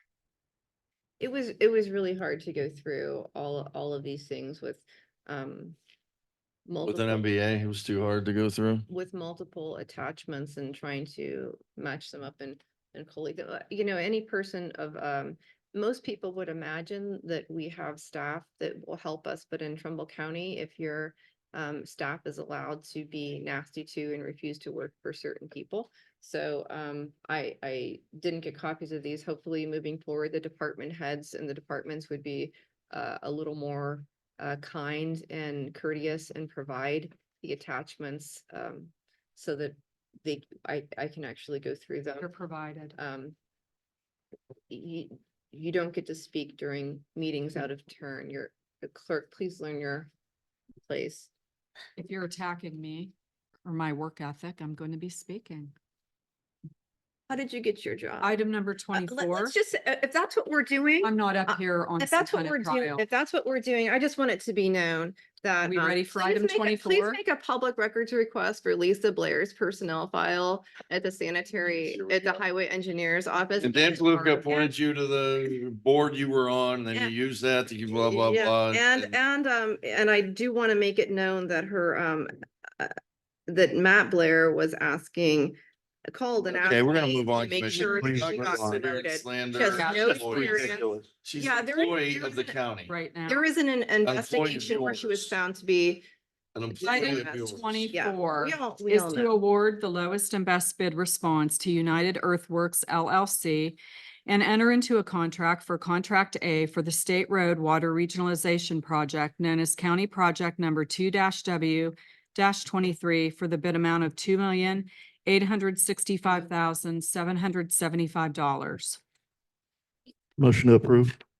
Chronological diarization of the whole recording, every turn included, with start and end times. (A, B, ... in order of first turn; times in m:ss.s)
0:01.2-0:05.8 A
0:06.7-0:07.3 A
0:06.8-0:08.8 B
0:08.9-0:42.3 A
0:42.2-0:43.0 C
0:43.0-0:43.4 A
0:44.7-0:50.1 A
0:50.8-0:51.3 A
0:52.0-0:53.1 C
0:53.6-0:55.7 C
0:57.3-0:58.3 A
0:58.2-0:59.6 C
0:58.9-1:14.7 A
1:01.0-1:03.0 C
1:05.6-1:07.2 C
1:11.8-1:12.4 B
1:13.6-1:19.2 B
1:17.9-1:22.9 A
1:23.5-1:25.6 A
1:26.1-1:32.6 A
1:26.6-1:32.9 B
1:27.7-1:28.8 D
1:29.7-1:30.3 C
1:29.8-1:31.1 D
1:32.9-1:33.5 C
1:33.3-1:36.0 A
1:34.0-1:35.3 B
1:36.5-1:37.9 B
1:36.8-1:39.3 A
1:36.8-1:59.0 C
2:00.4-2:01.2 D